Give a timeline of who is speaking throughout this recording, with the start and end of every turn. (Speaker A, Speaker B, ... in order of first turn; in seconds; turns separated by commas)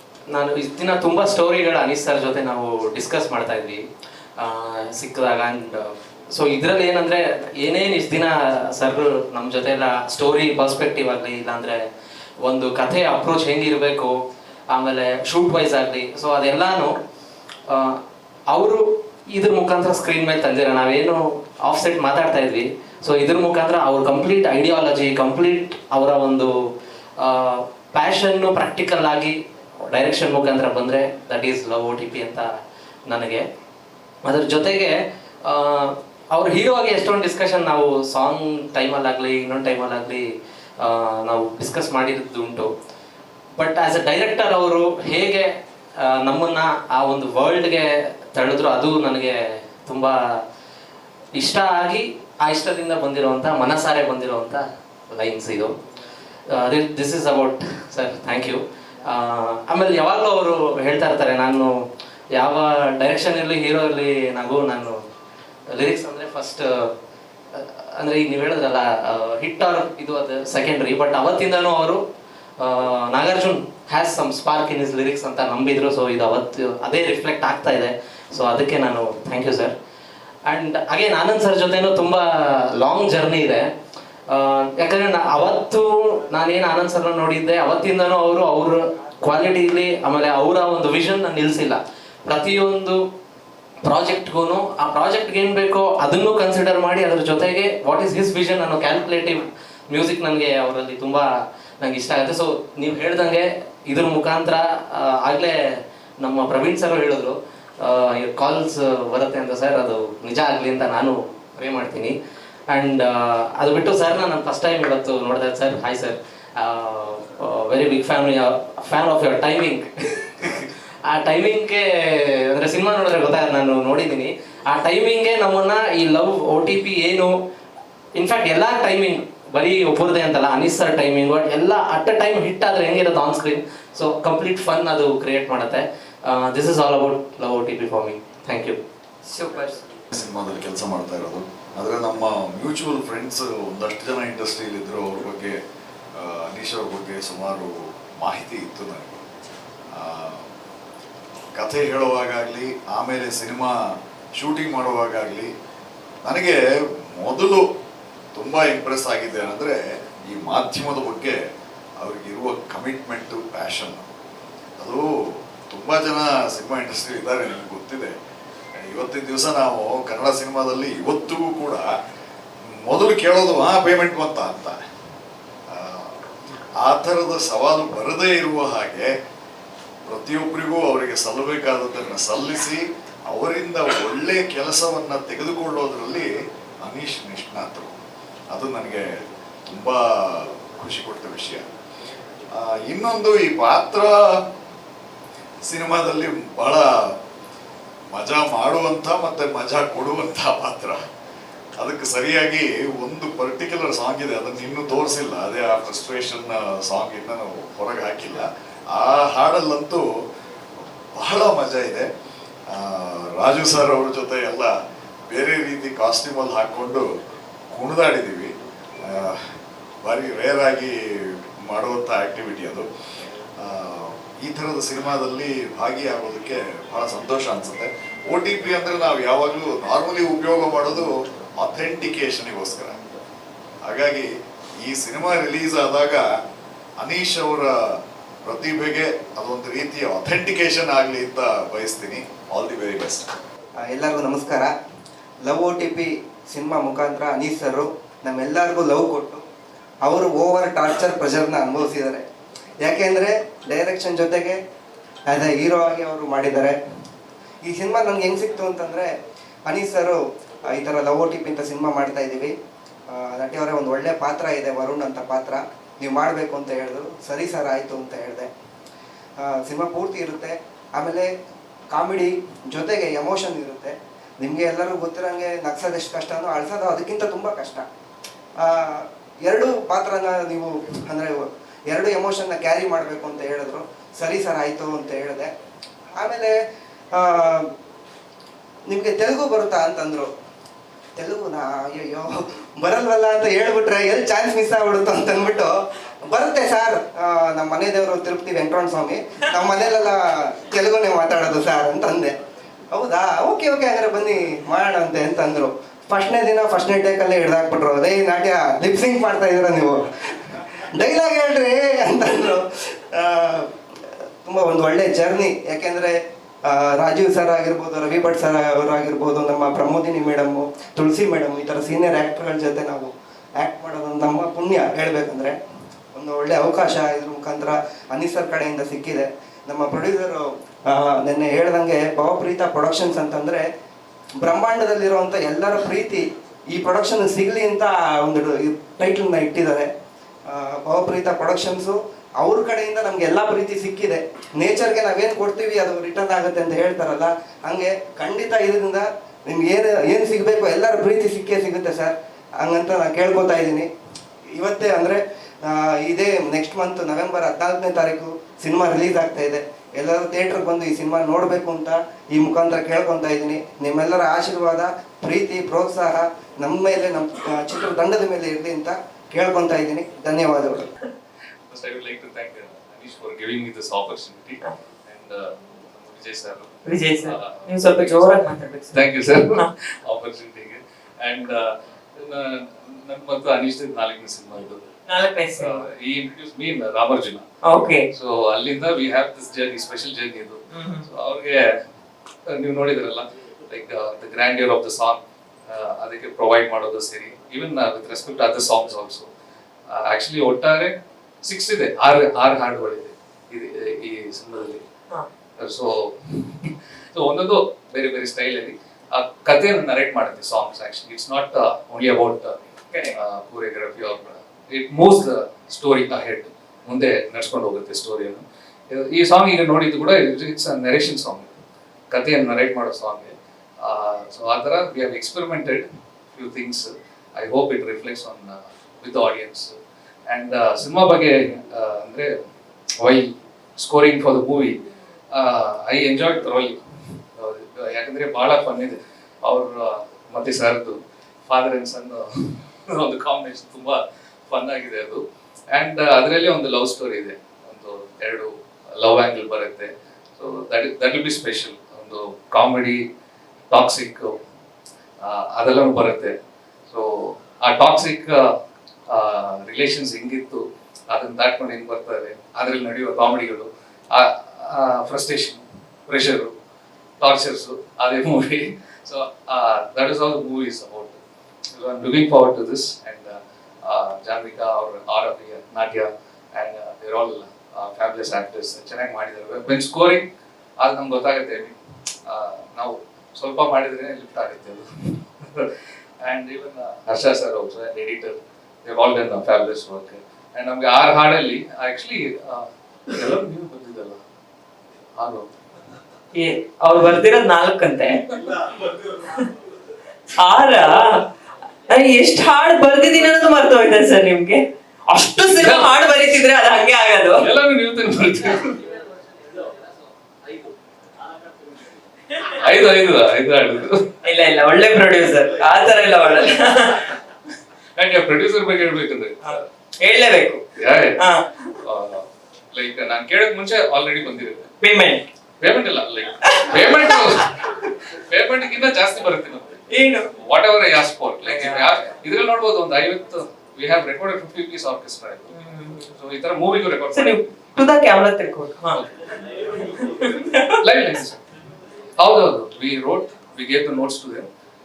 Speaker A: 0.3-3.8, Speaker A: 4.4-11.8, Speaker A: 12.4-14.2, Speaker A: 14.7-16.9, Speaker A: 17.7-26.5, Speaker A: 27.2-29.4, Speaker A: 29.9-32.5, Speaker A: 33.1-33.4, Speaker A: 34.2-40.3, Speaker A: 40.8-42.7, Speaker A: 43.5-50.4, Speaker A: 51.4-55.8, Speaker A: 56.5-61.7, Speaker A: 62.3-65.0, Speaker A: 65.7-66.9, Speaker A: 67.5-72.0, Speaker A: 72.6-79.7, Speaker A: 80.5-83.7, Speaker A: 84.3-93.0, Speaker A: 93.8-101.3, Speaker A: 101.8-112.2, Speaker A: 112.7-127.4, Speaker A: 128.1-138.8, Speaker B: 139.2-139.8, Speaker C: 140.1-145.6, Speaker C: 146.2-149.2, Speaker C: 149.9-150.4, Speaker C: 151.6-153.8, Speaker C: 154.3-155.5, Speaker C: 156.2-156.6, Speaker C: 157.1-157.6, Speaker C: 158.3-161.4, Speaker C: 162.0-164.0, Speaker C: 164.8-165.0, Speaker C: 165.7-168.1, Speaker C: 168.8-171.8, Speaker C: 172.8-174.8, Speaker C: 175.7-176.2, Speaker C: 176.8-179.1, Speaker C: 180.1-186.3, Speaker C: 186.8-187.9, Speaker C: 188.5-189.1, Speaker C: 189.7-191.7, Speaker C: 192.5-194.4, Speaker C: 195.6-196.9, Speaker C: 198.1-201.0, Speaker C: 201.8-210.0, Speaker C: 211.1-212.1, Speaker C: 212.7-214.7, Speaker C: 215.3-217.1, Speaker C: 217.7-219.4, Speaker C: 220.0-222.8, Speaker C: 223.6-233.0, Speaker C: 233.8-234.3, Speaker C: 234.8-236.2, Speaker C: 237.0-243.3, Speaker D: 243.8-244.7, Speaker D: 245.4-249.4, Speaker D: 250.0-252.2, Speaker D: 252.8-254.6, Speaker D: 255.3-256.8, Speaker D: 257.6-259.1, Speaker D: 259.6-260.2, Speaker D: 260.7-262.5, Speaker D: 263.1-268.5, Speaker D: 269.4-271.3, Speaker D: 271.9-277.9, Speaker D: 278.6-285.5, Speaker D: 286.1-286.5, Speaker D: 287.1-287.7, Speaker D: 288.9-290.3, Speaker D: 291.1-302.4, Speaker D: 302.9-313.7, Speaker D: 314.4-325.6, Speaker D: 326.1-333.6, Speaker D: 334.4-339.9, Speaker D: 340.5-353.9, Speaker D: 354.5-370.9, Speaker E: 371.7-384.9, Speaker B: 376.9-379.0, Speaker B: 385.1-385.8, Speaker E: 385.5-387.4, Speaker B: 387.6-388.1, Speaker E: 388.1-391.8, Speaker B: 390.7-391.1, Speaker E: 392.4-399.3, Speaker E: 399.9-404.8, Speaker E: 405.6-412.6, Speaker B: 412.9-413.2, Speaker E: 413.1-421.5, Speaker E: 422.1-429.7, Speaker E: 430.3-432.4, Speaker E: 433.0-434.8, Speaker E: 435.3-436.8, Speaker E: 437.4-453.0, Speaker E: 453.7-454.4, Speaker E: 455.2-456.4, Speaker E: 456.9-458.6, Speaker E: 459.1-466.5, Speaker E: 467.2-471.2, Speaker E: 471.7-480.2, Speaker E: 480.8-494.2, Speaker E: 495.2-495.5, Speaker B: 496.3-499.5, Speaker B: 500.3-501.2, Speaker B: 501.9-507.5, Speaker E: 505.5-506.0, Speaker E: 507.4-508.8, Speaker E: 512.5-514.1, Speaker B: 514.2-517.1, Speaker E: 518.0-519.6, Speaker B: 519.5-520.6, Speaker E: 520.8-521.2, Speaker B: 521.2-521.7, Speaker E: 521.8-524.7, Speaker B: 524.8-525.2, Speaker E: 525.6-537.5, Speaker B: 526.4-527.4, Speaker B: 529.9-530.3, Speaker B: 531.4-531.9, Speaker B: 535.5-536.1, Speaker B: 537.1-539.0, Speaker E: 538.9-539.4, Speaker B: 539.8-540.9, Speaker E: 540.8-541.4, Speaker E: 542.2-544.5